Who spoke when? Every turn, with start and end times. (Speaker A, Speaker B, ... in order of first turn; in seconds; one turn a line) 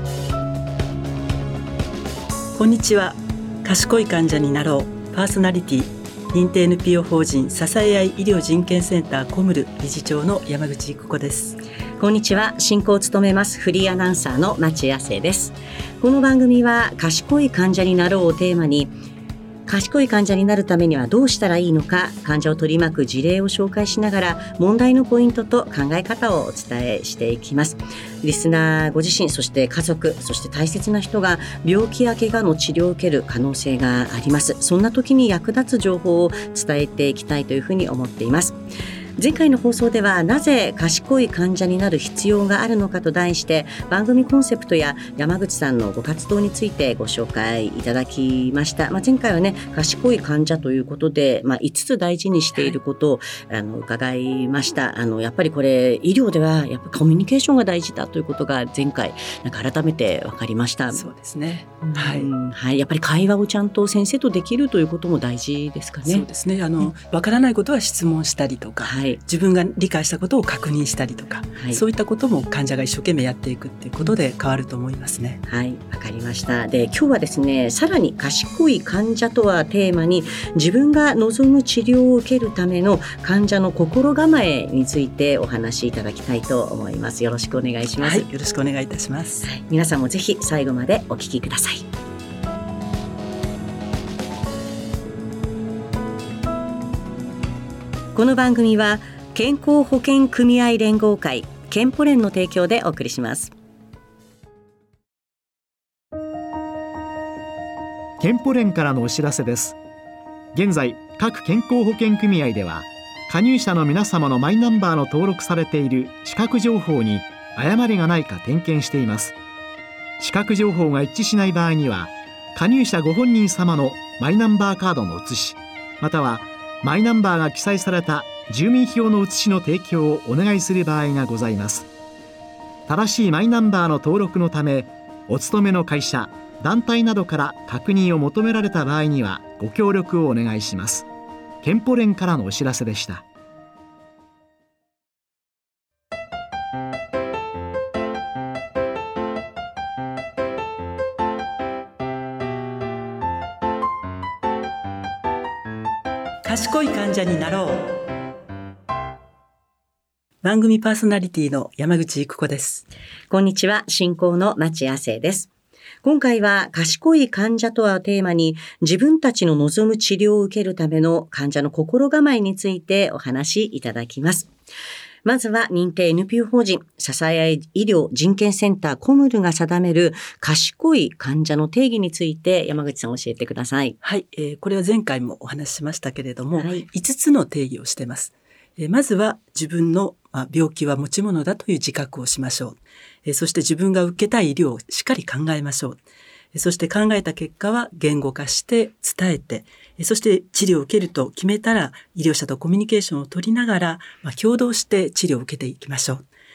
Speaker A: 2.6-11.6
Speaker B: 12.0-18.9
Speaker B: 19.7-38.6
Speaker B: 39.2-61.0
Speaker A: 52.5-52.8
Speaker A: 60.9-62.3
Speaker B: 61.8-66.2
Speaker A: 66.1-75.4
Speaker B: 68.8-69.2
Speaker B: 75.5-88.3
Speaker A: 88.0-89.5
Speaker B: 89.4-91.8
Speaker B: 98.2-103.5
Speaker C: 108.2-109.8
Speaker C: 110.5-119.3
Speaker C: 120.2-131.9
Speaker C: 132.9-141.1
Speaker C: 141.6-143.2
Speaker A: 156.4-158.0
Speaker A: 160.4-162.9
Speaker B: 163.3-165.5
Speaker B: 166.0-174.5
Speaker B: 175.2-184.0
Speaker A: 184.0-196.0
Speaker B: 186.6-186.9
Speaker A: 196.6-206.2